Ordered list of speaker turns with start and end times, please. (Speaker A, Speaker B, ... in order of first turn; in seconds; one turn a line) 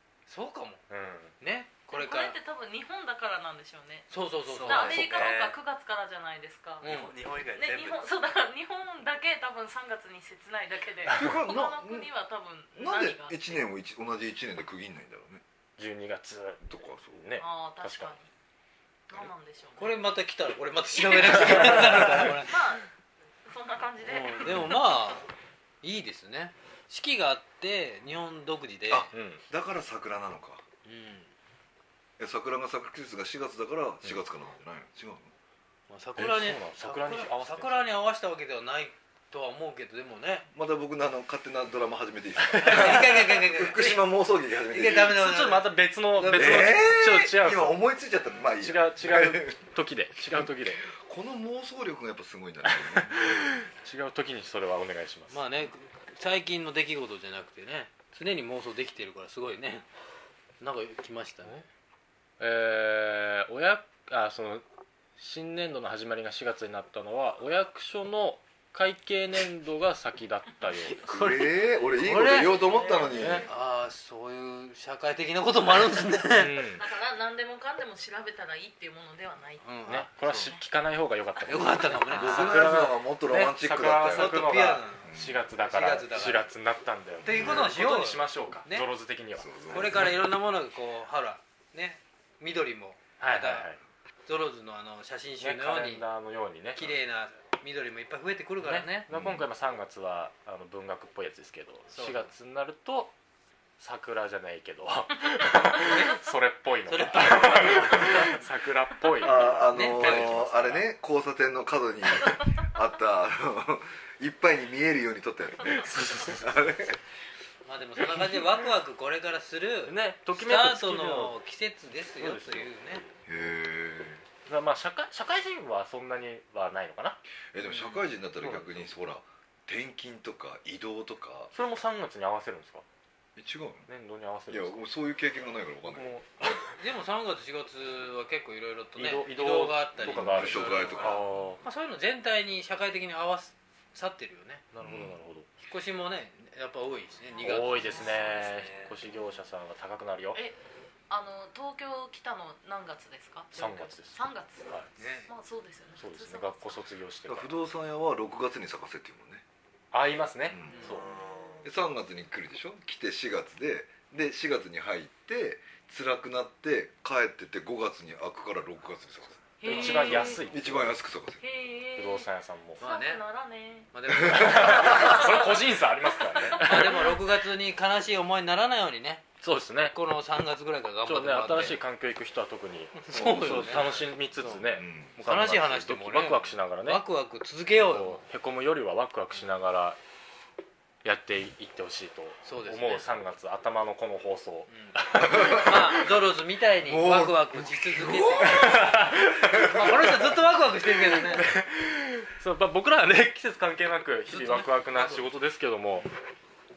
Speaker A: 0.3-0.8
Speaker B: 0.9-1.3
Speaker A: 1.4-2.4
Speaker C: 1.9-6.9
Speaker A: 4.1-5.3
Speaker D: 4.5-5.5
Speaker D: 6.8-8.1
Speaker A: 6.8-7.2
Speaker C: 7.5-13.6
Speaker E: 11.1-12.1
Speaker E: 12.7-15.4
Speaker B: 15.8-18.1
Speaker E: 16.6-17.2
Speaker C: 17.4-18.3
Speaker C: 19.1-19.9
Speaker A: 19.8-22.6
Speaker C: 20.9-22.9
Speaker C: 23.4-24.7
Speaker A: 24.0-25.3
Speaker A: 25.8-29.1
Speaker E: 28.9-30.6
Speaker B: 29.1-29.4
Speaker A: 30.8-31.3
Speaker E: 32.2-35.3
Speaker A: 35.9-40.5
Speaker B: 36.2-37.9
Speaker E: 40.5-45.2
Speaker B: 42.5-43.0
Speaker A: 42.6-44.1
Speaker A: 44.6-45.7
Speaker B: 45.1-47.8
Speaker E: 46.2-49.5
Speaker B: 48.6-50.8
Speaker E: 50.3-53.4
Speaker B: 52.9-55.4
Speaker A: 55.3-59.9
Speaker A: 60.6-61.6
Speaker B: 62.4-64.6
Speaker B: 65.2-71.3
Speaker A: 71.0-76.6
Speaker E: 71.1-73.5
Speaker C: 72.6-73.5
Speaker B: 73.1-73.4
Speaker B: 76.3-76.8
Speaker C: 76.8-79.6
Speaker A: 79.6-80.5
Speaker B: 79.8-90.1
Speaker A: 81.4-82.7
Speaker E: 82.1-84.4
Speaker A: 84.0-86.5
Speaker E: 85.0-85.4
Speaker A: 87.2-88.9
Speaker E: 87.2-87.7
Speaker E: 89.4-90.1
Speaker A: 89.7-93.7
Speaker B: 93.2-93.8
Speaker A: 94.3-96.0
Speaker B: 95.4-97.0
Speaker A: 96.8-99.1
Speaker B: 98.6-103.1
Speaker E: 99.1-99.4
Speaker A: 101.9-102.3
Speaker B: 103.8-110.8
Speaker A: 105.7-106.3
Speaker A: 106.9-108.4
Speaker E: 109.2-117.0
Speaker A: 109.7-110.4
Speaker B: 115.6-116.8
Speaker A: 117.7-123.0
Speaker B: 119.8-121.3
Speaker B: 122.2-122.7
Speaker E: 123.3-124.2
Speaker B: 124.5-127.2
Speaker E: 127.5-131.5
Speaker A: 127.7-128.1
Speaker B: 128.4-128.8
Speaker B: 131.5-132.8
Speaker E: 133.4-133.9
Speaker B: 133.9-134.8
Speaker E: 134.5-136.1
Speaker B: 135.9-136.7
Speaker A: 136.5-144.6
Speaker B: 139.0-141.6
Speaker E: 140.0-141.2
Speaker B: 144.7-145.5
Speaker E: 144.8-145.2
Speaker A: 145.6-148.4
Speaker B: 147.4-150.4
Speaker D: 148.6-148.9
Speaker C: 151.1-154.7
Speaker B: 153.5-154.9
Speaker A: 155.0-155.3
Speaker C: 155.3-156.8
Speaker B: 156.0-157.6
Speaker E: 157.2-159.4
Speaker B: 159.9-161.2
Speaker E: 160.5-160.8
Speaker A: 160.7-161.1
Speaker D: 161.2-161.6
Speaker E: 161.6-169.5
Speaker C: 169.6-170.4
Speaker B: 169.6-171.0
Speaker A: 169.6-170.4
Speaker E: 170.5-171.4
Speaker C: 171.4-172.3
Speaker B: 171.9-172.8
Speaker C: 172.8-173.9
Speaker A: 172.8-173.2
Speaker A: 173.9-175.3
Speaker E: 174.2-175.0
Speaker B: 174.2-177.2
Speaker C: 174.8-175.6
Speaker A: 176.6-179.2
Speaker B: 179.4-179.9
Speaker A: 179.9-181.8
Speaker B: 181.0-187.0
Speaker A: 183.0-184.6
Speaker E: 183.1-183.9
Speaker E: 184.6-185.2
Speaker A: 185.2-188.2
Speaker B: 187.8-190.0
Speaker B: 191.0-196.0
Speaker A: 192.4-193.1
Speaker A: 194.7-201.5
Speaker E: 195.2-195.7
Speaker E: 196.8-198.9
Speaker B: 198.4-200.4
Speaker E: 199.4-199.8
Speaker B: 201.3-206.1
Speaker A: 204.3-205.2